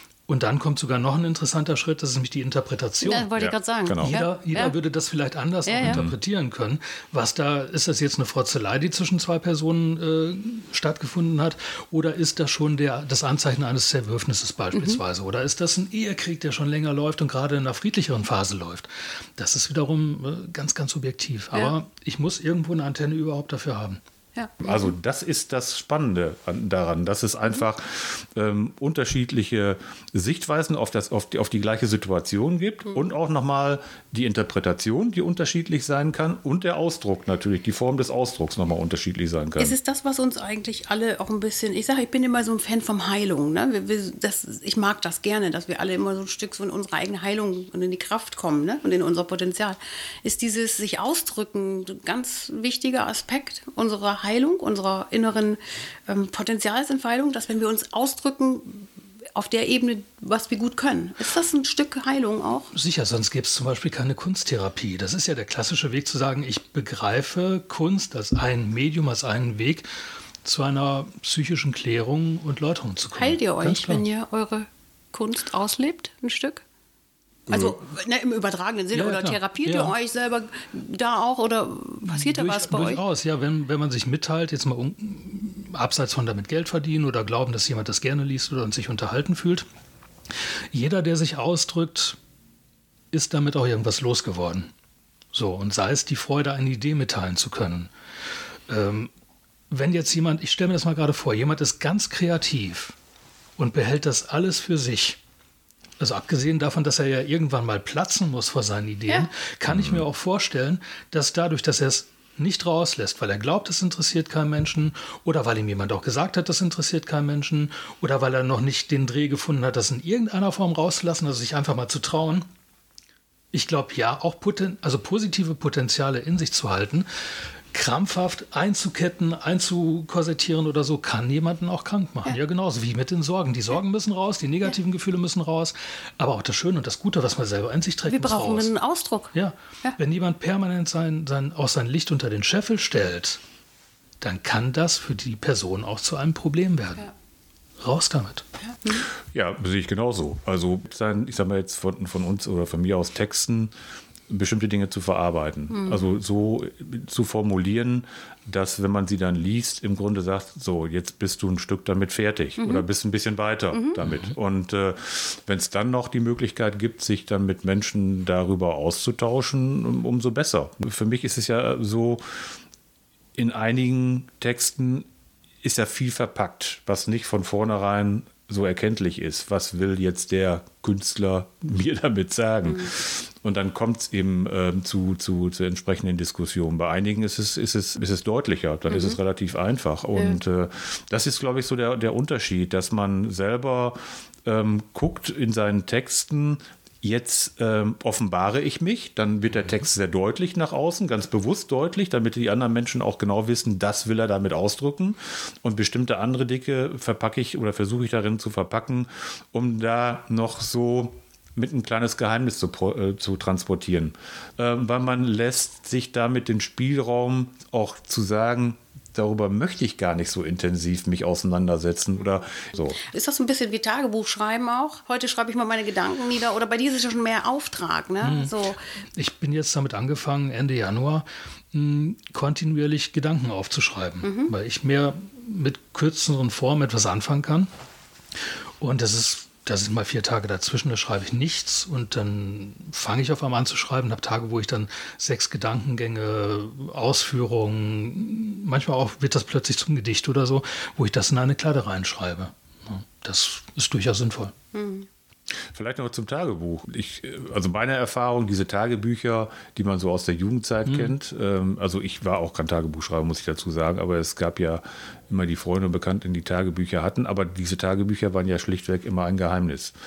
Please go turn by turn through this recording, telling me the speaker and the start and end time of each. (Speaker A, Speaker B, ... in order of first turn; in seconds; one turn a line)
Speaker A: 0.3-3.3
Speaker B: 3.0-4.8
Speaker C: 3.4-4.2
Speaker A: 4.0-24.0
Speaker B: 5.7-6.0
Speaker C: 5.8-6.2
Speaker B: 14.7-15.0
Speaker B: 24.4-24.9
Speaker C: 24.6-39.8
Speaker B: 39.6-62.7
Speaker A: 62.7-74.0
Speaker B: 73.2-76.6
Speaker B: 77.5-83.0
Speaker A: 78.9-80.0
Speaker A: 82.1-89.7
Speaker A: 90.4-92.2
Speaker A: 93.1-94.7
Speaker A: 95.3-97.9
Speaker A: 98.7-99.1
Speaker A: 99.7-103.0
Speaker A: 103.6-105.2
Speaker A: 106.0-122.5
Speaker C: 109.7-110.0
Speaker A: 123.5-138.7
Speaker B: 138.1-140.0
Speaker A: 139.3-143.4
Speaker A: 144.2-147.1
Speaker A: 147.8-148.4
Speaker B: 148.7-149.1
Speaker C: 149.3-153.7
Speaker C: 154.3-172.5
Speaker B: 155.7-156.0
Speaker B: 162.6-162.8
Speaker B: 163.7-164.0
Speaker C: 173.4-175.1
Speaker C: 175.6-223.0
Speaker B: 182.7-182.9
Speaker B: 188.9-189.2
Speaker B: 223.0-228.8
Speaker A: 228.2-228.5
Speaker A: 229.2-237.7
Speaker B: 234.2-234.5
Speaker A: 238.8-254.5
Speaker B: 254.7-255.1
Speaker C: 255.7-269.9
Speaker A: 260.9-261.1